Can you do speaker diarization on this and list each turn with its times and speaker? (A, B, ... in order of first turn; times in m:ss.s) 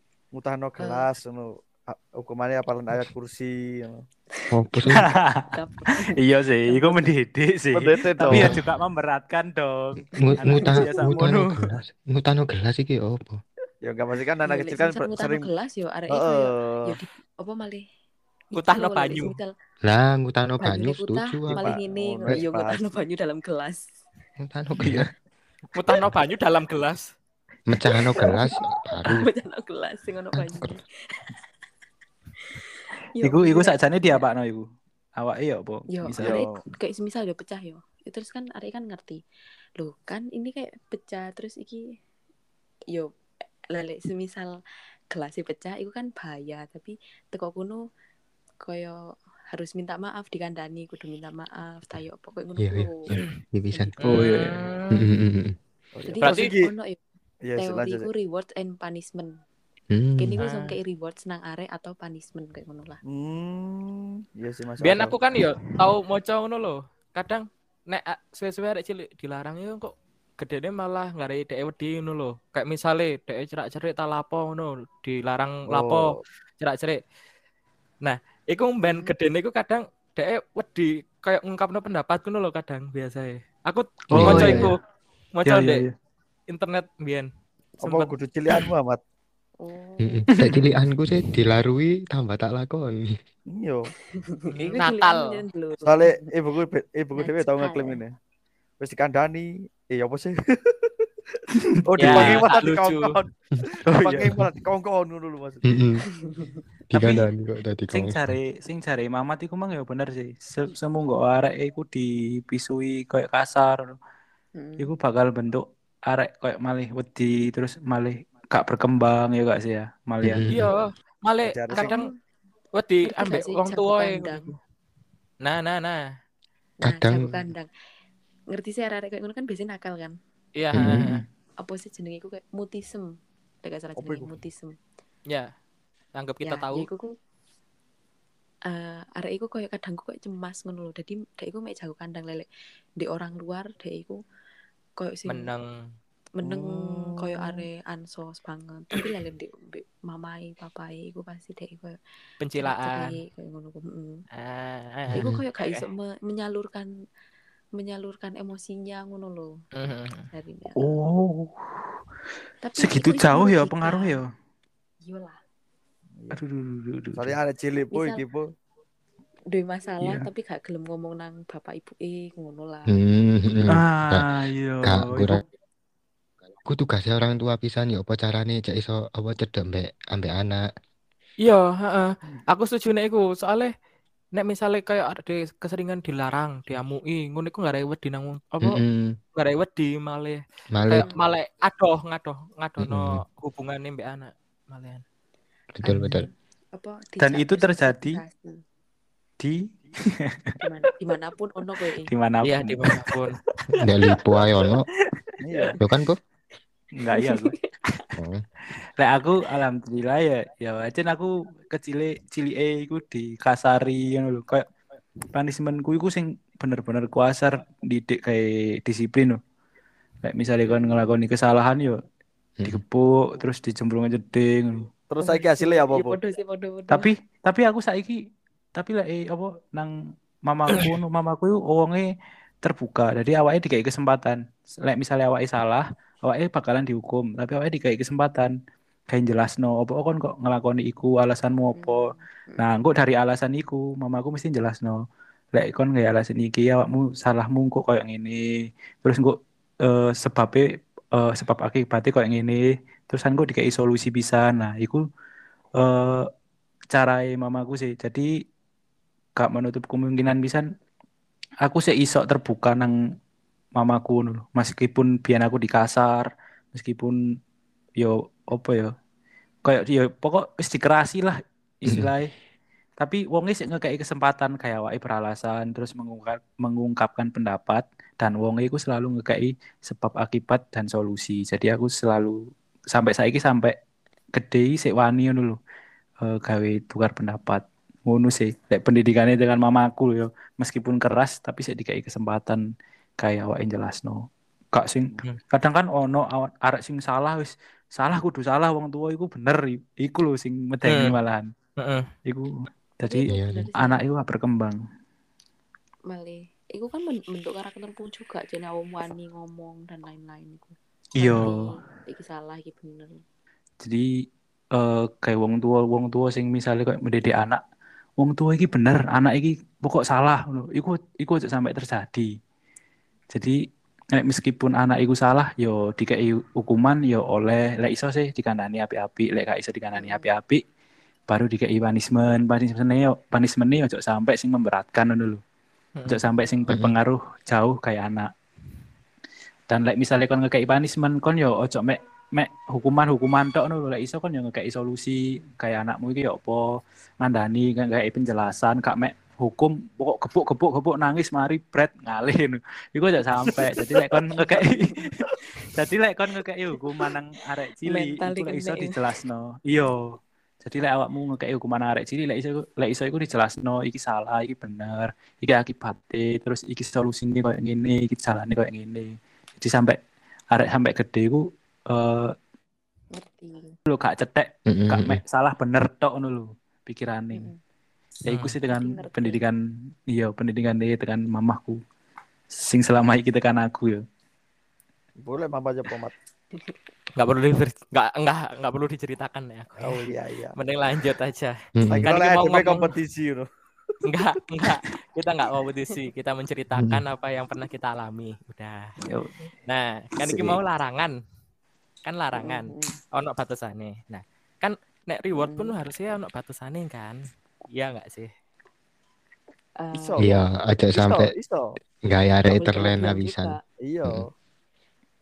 0:00.3-0:04.0 A
0:00.8-0:01.1 B
0:04.4-0:07.1 B
0:04.5-0:05.0 C
0:04.9-0:05.5 D
0:06.1-0:11.8 D
0:07.7-0:08.6 A
0:08.3-0:08.6 C
0:10.1-0:13.4 C
0:10.2-0:10.8 B
0:13.8-0:15.5 A
0:14.4-0:17.9 B
0:16.1-0:17.0 A
0:18.5-0:19.5 B
0:18.6-0:19.4 E
0:19.8-0:21.6 C
0:20.6-0:24.0 B
0:21.5-0:22.8 A
0:24.4-0:25.1 C
0:24.8-0:25.1 D
0:25.7-0:27.1 E
0:27.7-0:29.3 C
0:28.0-0:31.3 B
0:30.4-0:30.8 C
0:32.4-0:34.2 B
0:33.2-0:34.7 D
0:35.2-0:36.4 D
0:35.9-0:39.2 B
0:36.2-0:36.5 A
0:39.8-0:41.9 B
0:43.7-0:47.9 B
0:48.6-0:49.0 B
0:49.5-0:53.1 B
0:52.6-0:53.9 C
0:54.0-0:55.0 E
0:54.0-0:54.6 D
0:54.9-0:55.6 C
0:56.0-0:56.7 A
0:56.0-0:57.0 B
0:56.2-0:56.5 E
0:57.4-0:58.1 A
0:57.6-0:59.3 B
0:59.9-1:00.4 C
1:00.2-1:03.0 B
1:00.4-1:00.8 E
1:03.1-1:05.2 A
1:04.8-1:17.0 E
1:15.7-1:16.2 A
1:18.0-1:24.8 E
1:18.8-1:19.2 B
1:24.1-1:24.7 D
1:24.1-1:24.7 C
1:25.4-1:25.8 E
1:25.5-1:25.9 D
1:26.5-1:28.2 E
1:27.8-1:29.0 A
1:29.6-1:30.3 B
1:30.0-1:33.2 C
1:30.4-1:30.7 D
1:33.5-1:33.9 A
1:34.1-1:36.3 B
1:34.6-1:35.4 E
1:35.9-1:38.2 A
1:37.2-1:38.0 B
1:38.8-1:41.0 A
1:41.8-1:43.3 A
1:42.0-1:43.2 E
1:42.0-1:42.4 D
1:43.9-1:44.3 D
1:43.9-1:45.7 A
1:45.7-1:46.0 C
1:46.1-1:46.6 B
1:46.9-1:48.3 C
1:47.0-1:47.3 D
1:47.9-1:54.0 D
1:54.6-1:55.0 B
1:54.8-2:00.5 D
2:00.2-2:00.7 C
2:00.5-2:02.1 E
2:01.4-2:02.0 A
2:01.7-2:02.2 B
2:02.8-2:04.6 E
2:03.0-2:04.5 B
2:05.4-2:06.0 E
2:06.8-2:07.7 B
2:06.8-2:07.5 C
2:08.5-2:10.2 B
2:10.6-2:11.2 E
2:10.7-2:11.2 C
2:11.6-2:13.1 B
2:13.6-2:14.8 B
2:14.0-2:14.3 A
2:16.2-2:16.9 E
2:16.4-2:17.1 B
2:18.7-2:22.5 B
2:23.0-2:24.2 B
2:25.0-2:25.5 B
2:25.3-2:25.7 E
2:26.4-2:32.0 B
2:26.4-2:27.6 A
2:32.4-2:33.2 E
2:32.6-2:34.2 B
2:34.4-2:35.8 E
2:35.1-2:36.9 B
2:35.2-2:35.4 C
2:37.8-2:39.5 B
2:39.8-2:40.3 E
2:40.3-2:40.9 B
2:40.8-2:42.0 D
2:42.6-2:44.2 B
2:42.8-2:44.2 D
2:45.0-2:45.4 B
2:46.3-2:47.4 D
2:47.2-2:48.5 A
2:47.9-2:48.2 B
2:49.5-2:52.9 B
2:50.0-2:50.3 D
2:52.9-2:54.3 C
2:53.7-2:55.4 D
2:54.8-2:55.4 C
2:56.6-3:00.6 C
3:01.4-3:03.7 E
3:04.4-3:08.8 E
3:08.6-3:09.2 C
3:09.4-3:15.0 E
3:10.7-3:11.1 C
3:10.9-3:11.2 B
3:12.8-3:13.2 C
3:15.8-3:16.3 C
3:15.9-3:18.6 B
3:17.2-3:18.2 D
3:19.4-3:20.5 D
3:20.6-3:22.1 B
3:22.0-3:23.1 D
3:22.4-3:23.4 E
3:23.8-3:24.9 C
3:25.2-3:25.7 D
3:25.4-3:25.8 A
3:25.8-3:26.2 C
3:27.0-3:27.5 D
3:27.1-3:28.1 B
3:28.2-3:28.4 C
3:29.0-3:34.6 D
3:35.3-3:39.4 D
3:40.2-3:42.0 D
3:42.6-3:44.9 D
3:45.1-3:46.2 A
3:45.2-3:47.1 B
3:46.9-3:48.2 D
3:48.8-3:49.9 D
3:50.5-3:52.1 D
3:52.6-3:58.6 D
3:59.1-4:05.0 D
4:01.8-4:02.6 B
4:05.5-4:08.5 D
4:09.0-4:15.0 D
4:15.8-4:16.3 D
4:16.9-4:18.3 D
4:19.4-4:20.7 D
4:21.6-4:23.0 D
4:23.8-4:27.2 D
4:28.0-4:28.9 D
4:29.6-4:32.3 D
4:33.0-4:43.8 D
4:44.4-4:45.6 D
4:46.2-4:52.6 D
4:53.2-5:01.5 D
5:00.8-5:01.1 E
5:01.8-5:02.1 E
5:02.3-5:04.8 D
5:03.0-5:04.1 B
5:03.3-5:03.7 C
5:06.1-5:13.2 B
5:11.2-5:11.8 D
5:13.8-5:14.1 D
5:14.7-5:17.6 D
5:18.2-5:22.3 D
5:23.3-5:23.6 D
5:24.1-5:30.6 D
5:30.0-5:30.3 B
5:31.3-5:35.4 D
5:36.0-5:36.2 E
5:36.0-5:38.3 D
5:39.7-5:46.7 D
5:47.2-6:10.0 D
5:54.4-5:55.2 B
5:57.8-5:59.1 B
6:10.5-6:12.3 D
6:13.1-6:13.8 B
6:13.9-6:17.5 D
6:14.7-6:15.2 C
6:17.3-6:17.6 B
6:18.3-6:18.5 E
6:18.3-6:21.8 D
6:18.7-6:19.4 B
6:22.5-6:24.0 D
6:25.2-6:26.1 A
6:27.2-6:33.0 E
6:29.8-6:30.6 A
6:31.8-6:32.1 C
6:31.9-6:33.5 A
6:34.0-6:38.9 E
6:36.8-6:37.0 C
6:39.1-6:39.5 D
6:39.7-6:41.2 E
6:42.1-6:47.2 E
6:42.4-6:43.0 B
6:45.4-6:45.8 B
6:47.7-6:48.3 E
6:49.8-6:50.3 B
6:49.9-6:51.8 A
6:50.2-6:51.3 C
6:52.1-6:53.5 C
6:52.5-6:53.6 B
6:53.8-6:54.3 A